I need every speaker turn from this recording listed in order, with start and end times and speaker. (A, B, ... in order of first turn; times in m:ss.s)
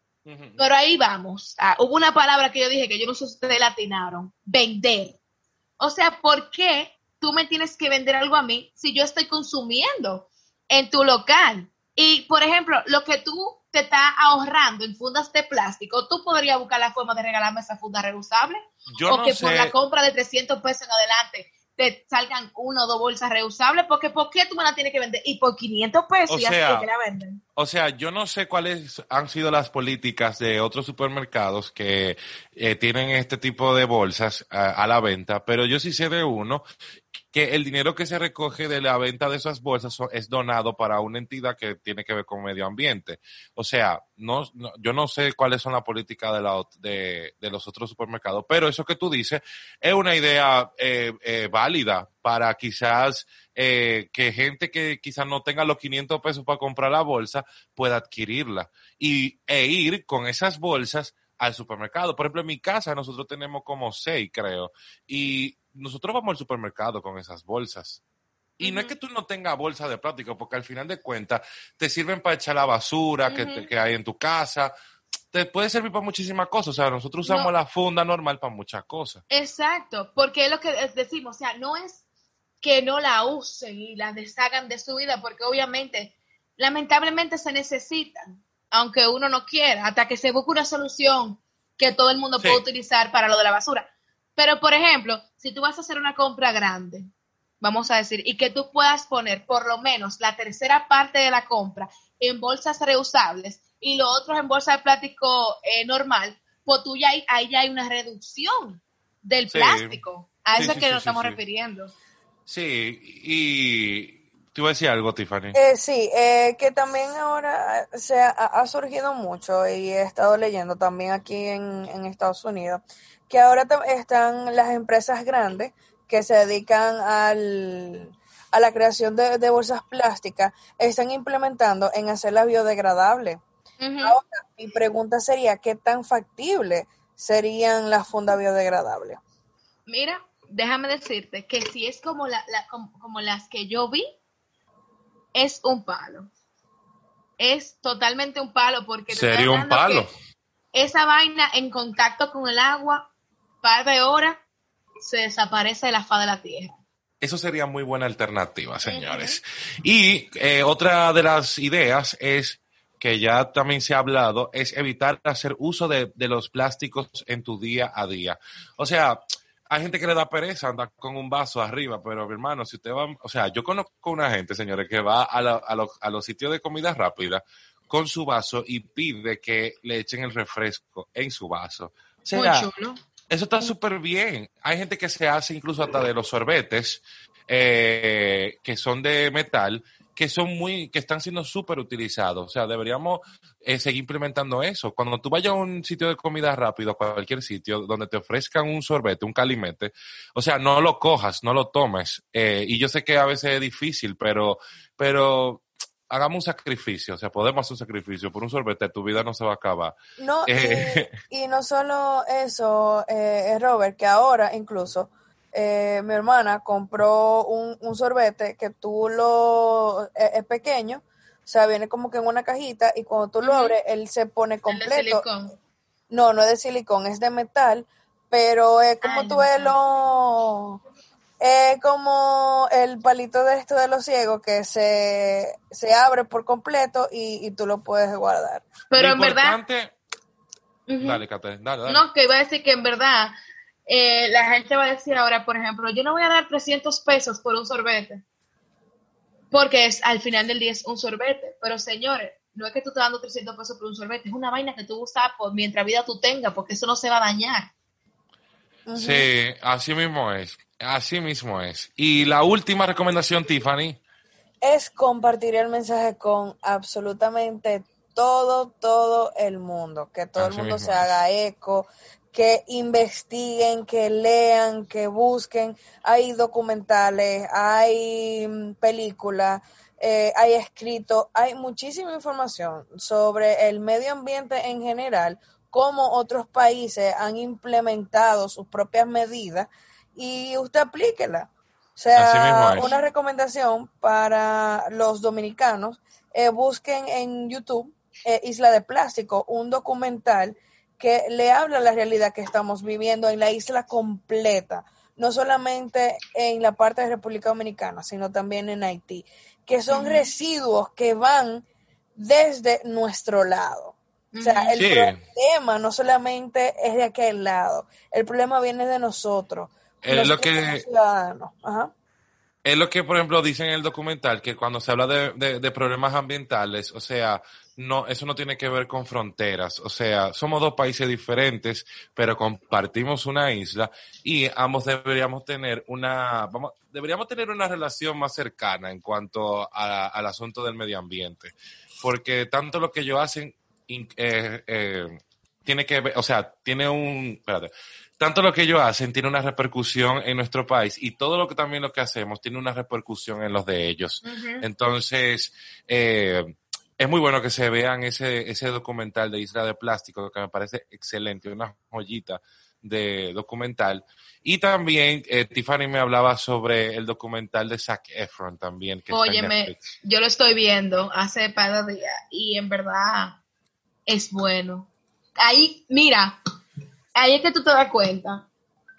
0:00.3-0:00.6 A
0:00.6-0:05.2 B
0:05.8-0:27.4 B
0:18.9-0:19.7 A
0:26.3-0:26.9 A
0:27.6-0:36.6 A
0:37.2-1:08.0 A
1:08.6-1:14.7 A
1:08.6-1:09.0 B
1:13.3-1:13.7 B
1:15.3-1:19.2 A
1:17.3-1:17.5 B
1:19.3-1:22.0 B
1:22.6-1:37.1 B
1:37.6-1:51.9 B
1:49.5-1:50.0 A
1:50.5-1:51.4 A
1:52.5-1:55.6 A
1:55.5-2:13.4 C
2:13.8-2:14.2 B
2:14.0-2:19.2 C
2:19.9-2:24.1 B
2:25.4-2:26.3 B
2:27.4-2:30.1 B
2:29.1-2:30.1 A
2:30.7-2:33.1 B
2:33.6-2:34.4 B
2:35.0-2:36.8 B
2:37.2-3:02.7 A
2:38.8-2:39.4 B
3:02.3-3:03.0 B
3:03.3-3:31.1 A
3:30.2-3:45.2 C
3:43.4-3:43.8 B
3:44.7-3:45.6 B
3:46.1-3:50.8 C
3:49.0-3:49.8 B
3:51.4-3:58.7 C
3:58.9-3:59.6 B
3:58.9-4:00.0 A
4:00.9-4:01.2 B
4:01.0-4:02.0 A
4:01.9-4:03.4 B
4:03.9-4:08.2 B
4:09.5-4:17.7 B
4:18.9-4:19.3 C
4:19.0-4:24.0 A
4:24.6-5:21.9 C
4:30.4-4:31.2 A
4:52.2-4:52.9 A
5:09.9-5:10.3 B
5:14.3-5:14.8 B
5:14.8-5:15.2 A
5:20.0-5:20.8 A
5:22.6-6:09.9 A
5:54.2-5:54.6 B
6:09.1-6:13.4 B
6:14.1-6:16.4 B
6:17.2-6:18.5 B